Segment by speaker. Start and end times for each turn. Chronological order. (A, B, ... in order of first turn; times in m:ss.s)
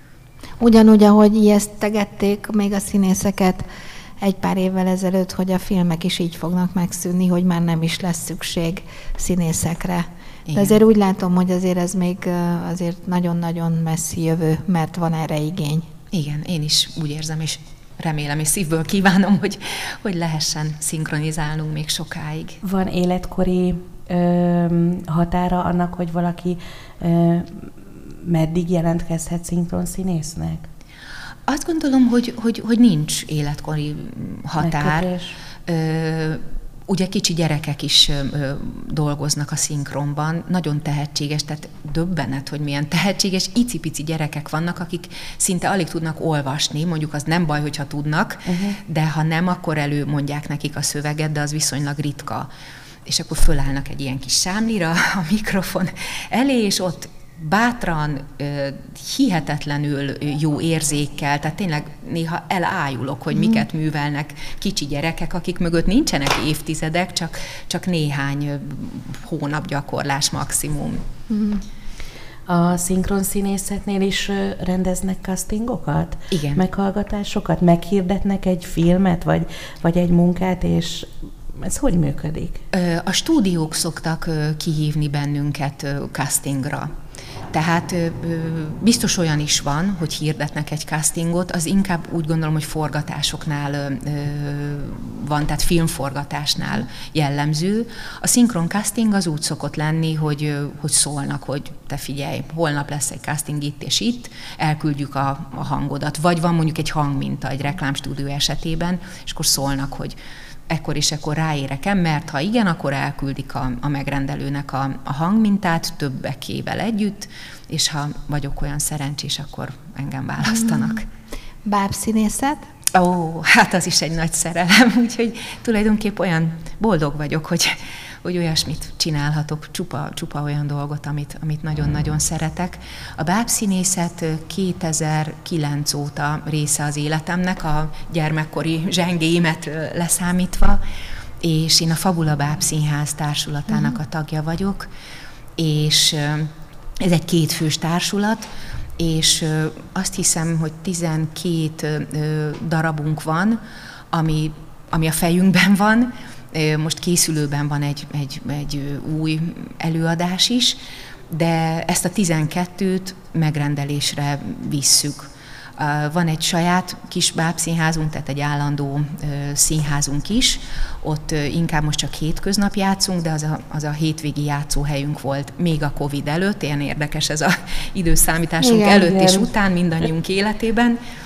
0:00.6-0:03.7 A
0:04.2-0:15.8 A
0:10.5-0:10.8 B
0:16.1-0:22.6 B
0:22.6-0:30.7 C
0:31.5-0:35.1 B
0:34.6-0:35.4 C
0:35.7-0:52.5 B
0:48.5-0:48.8 C
0:53.1-1:11.0 B
1:03.4-1:03.6 A
1:11.3-1:11.6 A
1:12.5-1:22.6 C
1:16.3-1:16.6 B
1:22.7-1:26.9 B
1:27.5-1:50.2 B
1:50.7-2:01.0 B
2:01.6-2:02.7 A
2:02.9-2:20.8 B
2:21.4-2:24.9 B
2:25.6-2:28.5 B
2:29.0-2:33.6 B
2:34.1-2:40.8 B
2:41.3-3:01.0 B
2:58.6-2:59.4 A